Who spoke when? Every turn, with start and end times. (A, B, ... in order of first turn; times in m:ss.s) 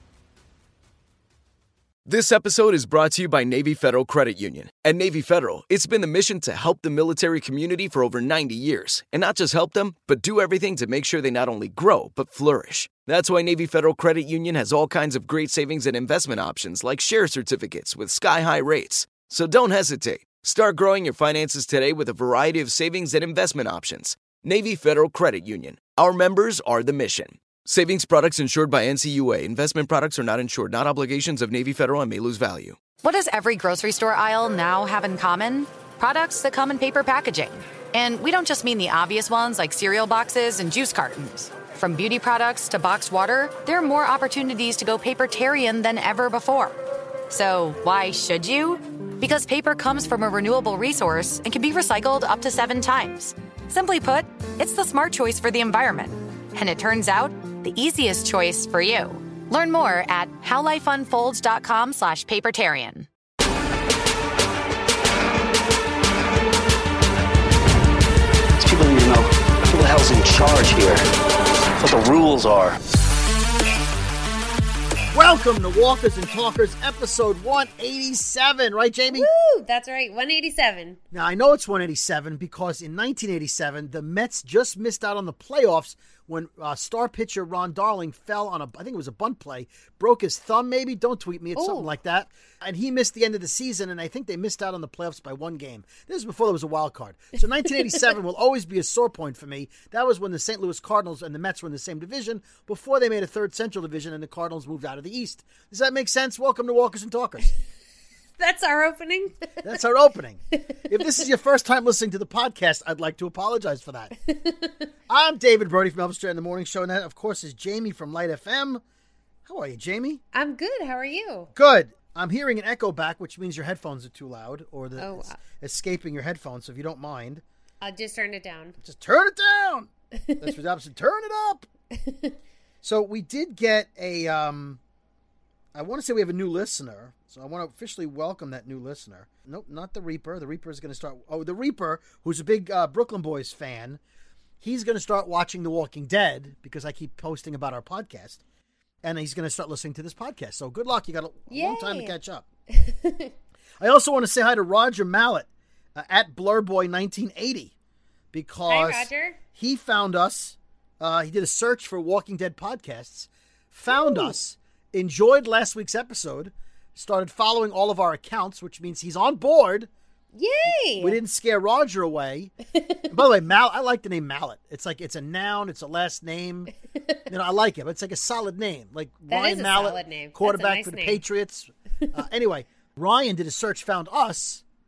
0:02.0-0:32.8 A
0:33.0-0:46.8 B
0:47.3-1:03.1 B
1:08.6-1:11.0 C
1:11.8-1:12.8 C
1:15.1-1:19.3 D
1:19.1-1:21.0 E
1:21.1-1:47.5 D
1:31.6-1:31.9 E
1:48.4-1:49.3 E
1:49.6-1:54.1 D
1:50.8-1:51.1 E
1:54.3-1:54.7 E
1:55.1-1:58.8 D
1:59.4-2:00.2 D
2:00.3-2:01.5 E
2:01.6-2:07.4 D
2:05.0-2:05.4 E
2:07.8-2:08.8 E
2:08.8-2:11.7 D
2:10.2-2:10.5 E
2:11.9-2:12.3 E
2:12.8-2:14.8 D
2:15.7-2:24.0 D
2:24.6-2:28.4 D
2:29.0-2:32.4 D
2:31.5-2:32.1 E
2:32.7-2:33.3 E
2:33.8-2:37.7 D
2:38.3-2:49.9 D
2:38.7-2:39.4 E
2:43.9-2:44.4 E
2:50.3-2:51.2 E
2:51.0-2:52.5 D
2:52.8-2:53.1 E
2:53.1-2:56.7 D
2:57.3-3:04.6 D
2:59.3-3:01.2 E